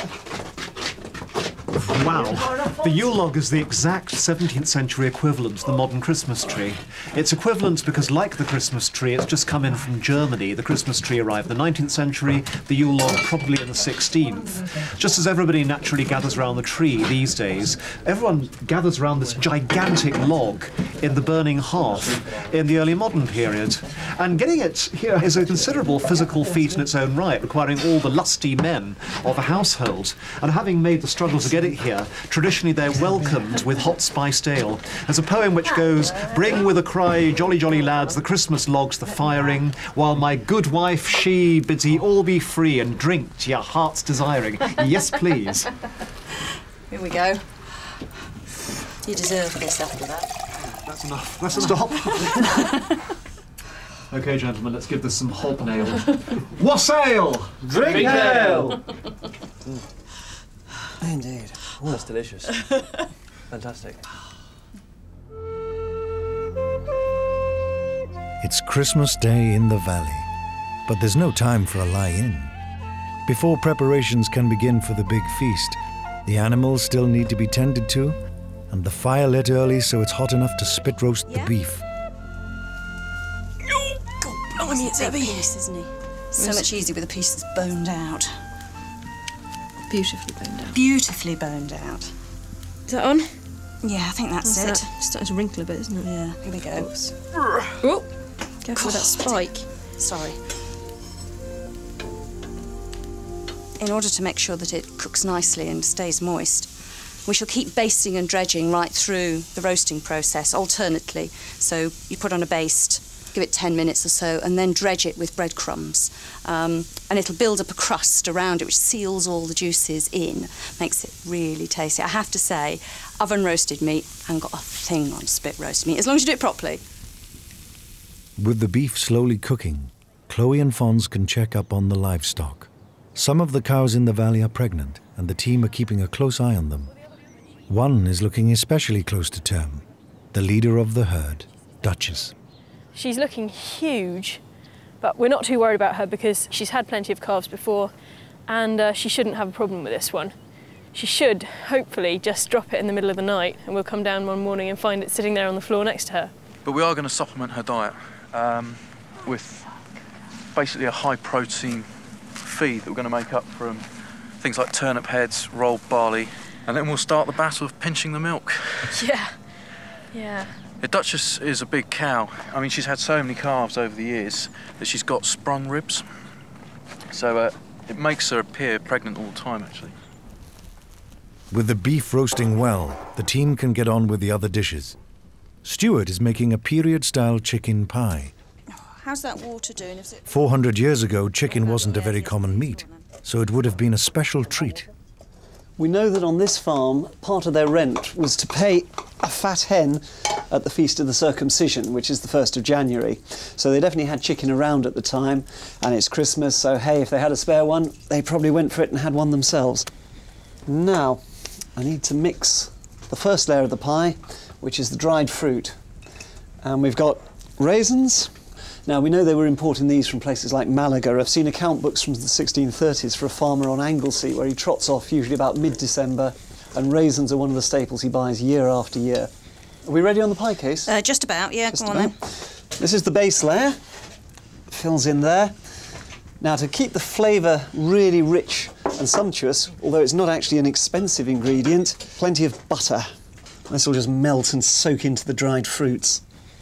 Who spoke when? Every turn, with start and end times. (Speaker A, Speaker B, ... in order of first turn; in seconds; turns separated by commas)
Speaker A: 1.8-45.7, Speaker B: 46.9-48.0, Speaker B: 49.0-50.3, Speaker A: 50.7-52.3, Speaker C: 51.5-52.5, Speaker A: 54.1-58.8, Speaker C: 57.6-58.8, Speaker D: 57.8-58.8, Speaker C: 61.0-62.1, Speaker D: 61.8-62.7, Speaker D: 63.5-64.0, Speaker E: 68.4-70.3, Speaker E: 70.9-72.5, Speaker E: 73.2-78.2, Speaker E: 78.7-81.8, Speaker B: 81.3-81.5, Speaker B: 84.5-88.3, Speaker F: 84.5-85.5, Speaker F: 86.4-86.7, Speaker F: 89.9-90.8, Speaker B: 90.7-92.1, Speaker F: 92.9-93.4, Speaker B: 93.8-94.9, Speaker F: 94.4-96.2, Speaker B: 96.0-96.9, Speaker F: 96.7-97.2, Speaker F: 97.8-98.1, Speaker F: 98.6-99.7, Speaker B: 98.7-100.4, Speaker B: 103.8-106.7, Speaker B: 107.2-126.8, Speaker E: 128.4-136.9, Speaker E: 137.7-142.3, Speaker F: 142.9-144.4, Speaker F: 145.0-147.9, Speaker F: 148.5-150.3, Speaker F: 150.9-156.3, Speaker G: 156.6-159.7, Speaker G: 160.5-163.8, Speaker G: 164.4-169.0, Speaker F: 168.9-169.4, Speaker F: 170.1-170.6, Speaker G: 170.8-176.0, Speaker G: 177.1-179.9, Speaker E: 181.5-185.0, Speaker E: 185.6-188.3, Speaker B: 188.7-190.2, Speaker E: 190.3-194.9, Speaker B: 191.5-193.0, Speaker C: 195.8-209.9, Speaker C: 210.7-211.2, Speaker C: 211.7-215.8, Speaker C: 216.6-218.3, Speaker C: 218.8-229.3, Speaker C: 229.8-230.9, Speaker B: 230.9-232.2, Speaker C: 231.7-233.8, Speaker C: 234.7-235.6, Speaker C: 236.4-243.1, Speaker C: 243.7-246.2